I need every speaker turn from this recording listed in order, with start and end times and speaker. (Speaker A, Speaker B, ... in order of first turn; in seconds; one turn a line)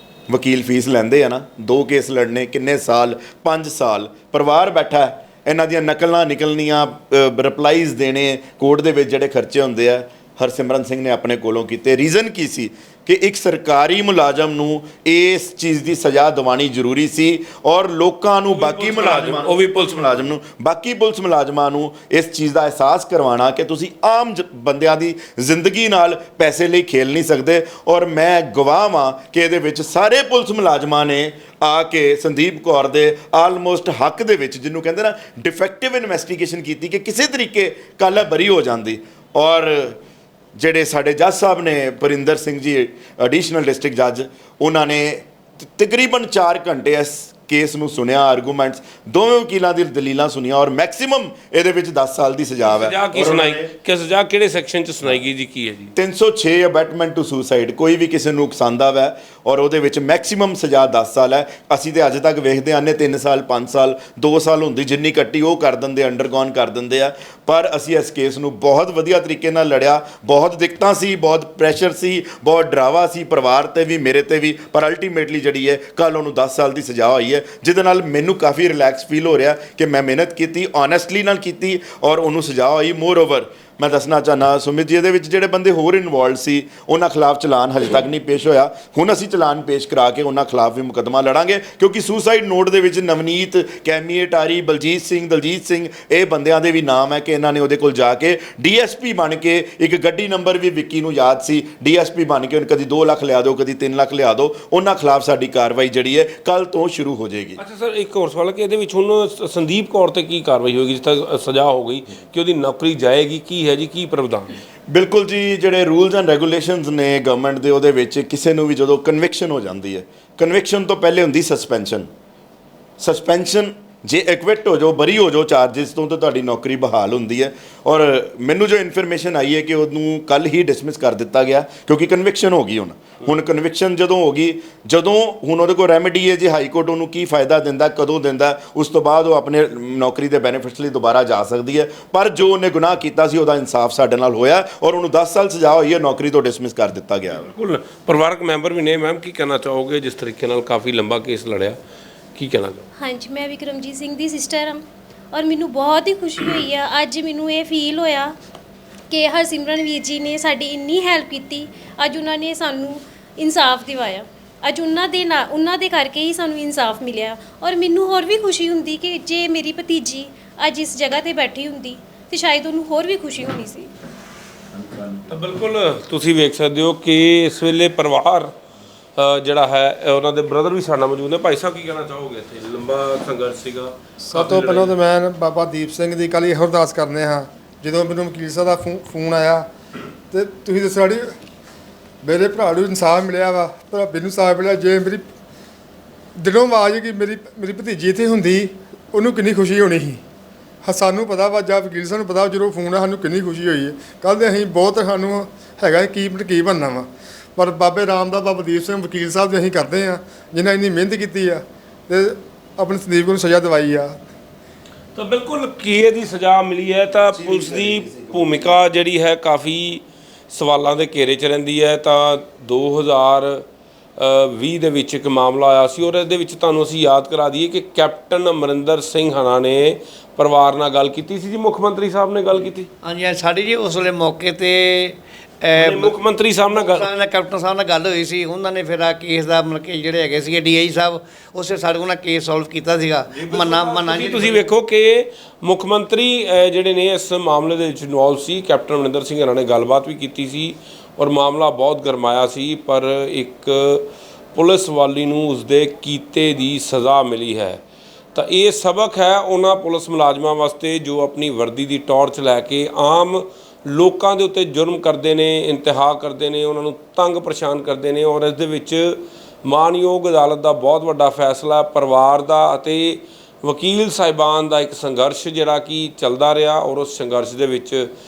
Speaker A: 0.3-40.0
Speaker B: 18.5-20.3
Speaker A: 40.6-53.7
Speaker B: 52.6-55.9
Speaker A: 56.0-107.6
Speaker B: 107.6-114.5
Speaker A: 114.9-122.1
Speaker A: 123.0-147.5
Speaker B: 147.3-151.8
Speaker B: 152.4-152.9
Speaker C: 153.0-158.3
Speaker C: 159.1-173.9
Speaker B: 175.3-178.5
Speaker B: 179.2-185.0
Speaker D: 184.3-189.7
Speaker D: 190.3-191.3
Speaker D: 192.2-195.2
Speaker D: 196.4-200.2
Speaker D: 200.8-214.2
Speaker B: 215.2-223.7
Speaker A: 217.3-218.7
Speaker B: 224.2-232.9
Speaker E: 233.0-236.2
Speaker B: 235.8-237.1
Speaker E: 236.7-244.7
Speaker B: 243.3-257.8
Speaker B: 258.3-278.1